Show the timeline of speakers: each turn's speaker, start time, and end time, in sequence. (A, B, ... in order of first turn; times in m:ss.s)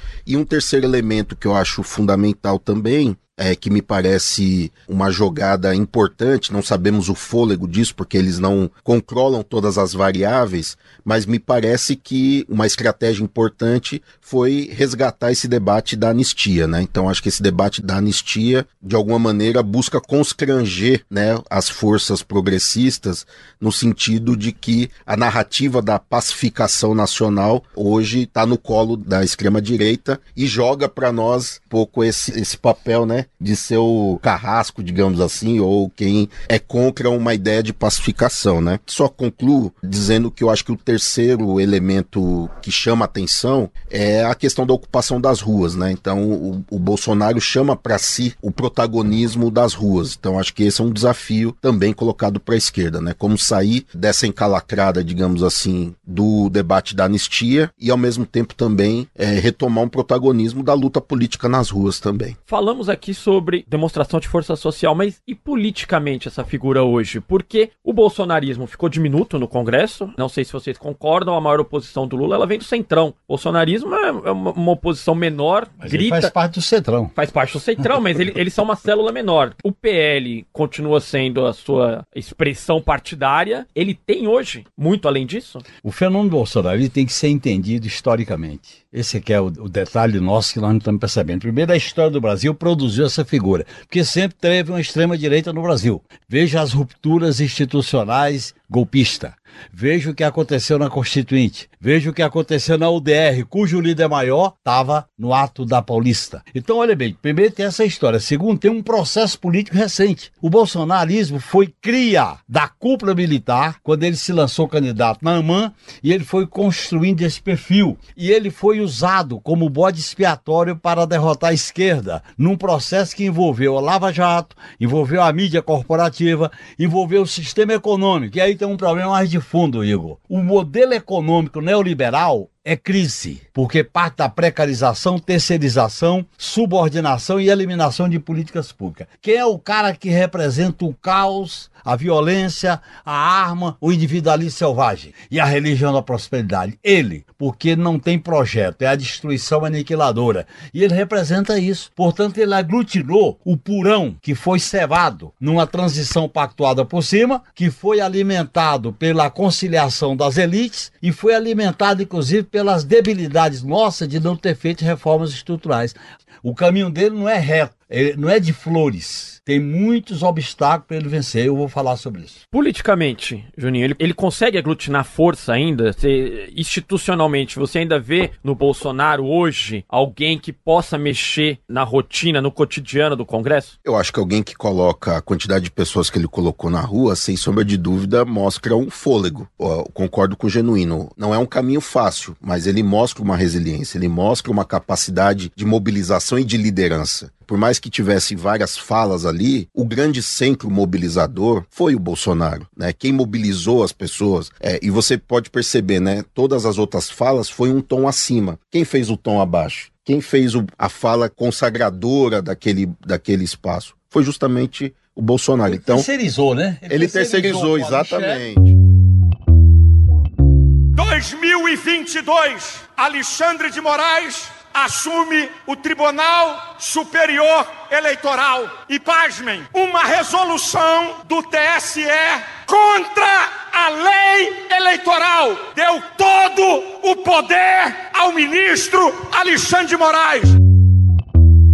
0:00.3-1:02.4 A
1:02.5-1:16.3 B
1:15.8-1:17.1 C
1:17.2-1:25.7 B
1:25.8-2:52.4 C
2:52.5-3:03.8 B
3:03.8-3:36.1 A
3:35.7-3:38.4 C
3:36.9-3:38.7 A
3:41.0-4:00.6 D